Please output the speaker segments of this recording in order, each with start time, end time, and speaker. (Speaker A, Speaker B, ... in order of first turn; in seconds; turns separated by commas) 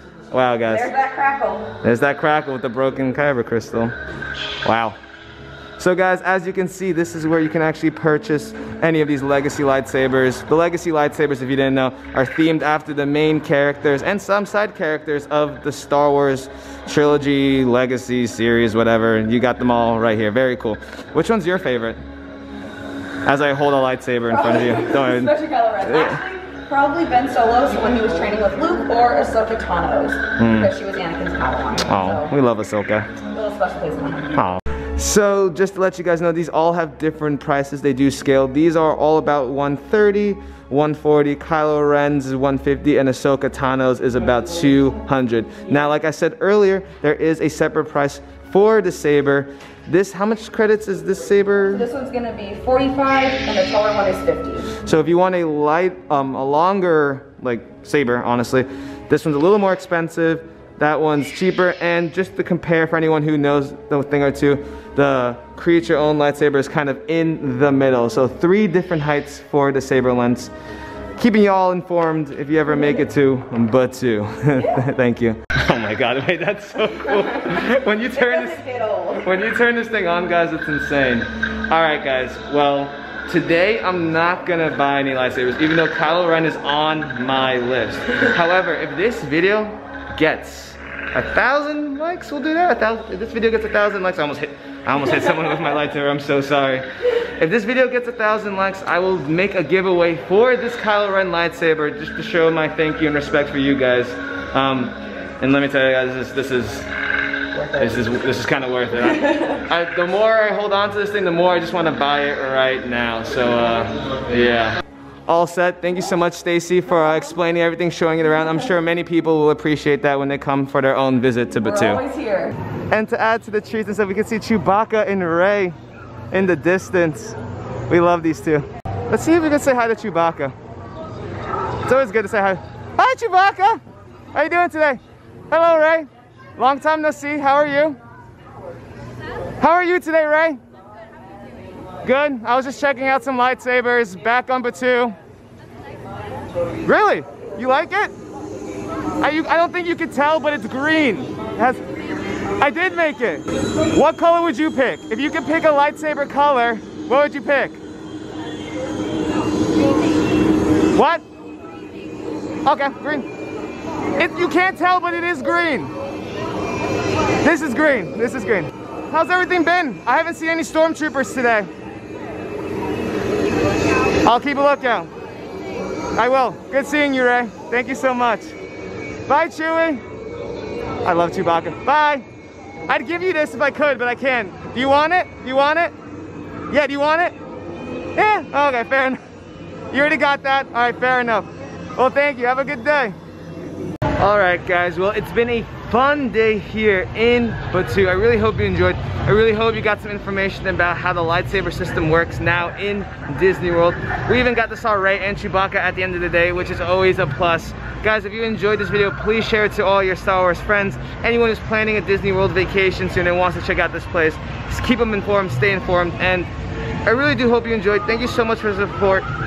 Speaker A: 0.3-0.9, Speaker B: 0.7-1.8, Speaker A: 1.8-4.0, Speaker A: 4.6-5.0, Speaker A: 5.8-22.0, Speaker A: 23.2-26.2, Speaker B: 24.3-32.3, Speaker A: 30.4-30.7, Speaker A: 31.9-33.1, Speaker B: 33.3-34.3, Speaker A: 34.3-51.9, Speaker B: 51.7-54.7, Speaker A: 54.8-70.5, Speaker A: 71.2-78.6, Speaker B: 78.3-79.2, Speaker A: 79.2-106.9, Speaker A: 107.7-122.0, Speaker B: 121.7-122.6, Speaker A: 122.9-125.8, Speaker A: 126.3-127.4, Speaker A: 127.9-130.6, Speaker A: 131.8-133.8, Speaker A: 134.3-138.0, Speaker A: 139.6-140.6, Speaker A: 142.0-145.2, Speaker A: 146.8-148.1, Speaker A: 149.2-151.8, Speaker A: 152.6-157.8, Speaker A: 160.9-161.2, Speaker A: 162.7-163.3, Speaker A: 164.2-165.9, Speaker A: 167.4-171.7, Speaker A: 174.2-175.1, Speaker A: 176.2-178.5, Speaker A: 179.3-180.0, Speaker A: 181.0-182.2, Speaker A: 182.9-185.9, Speaker A: 186.7-187.4, Speaker A: 188.2-189.2, Speaker A: 189.9-193.2, Speaker A: 194.2-216.5, Speaker A: 217.1-219.3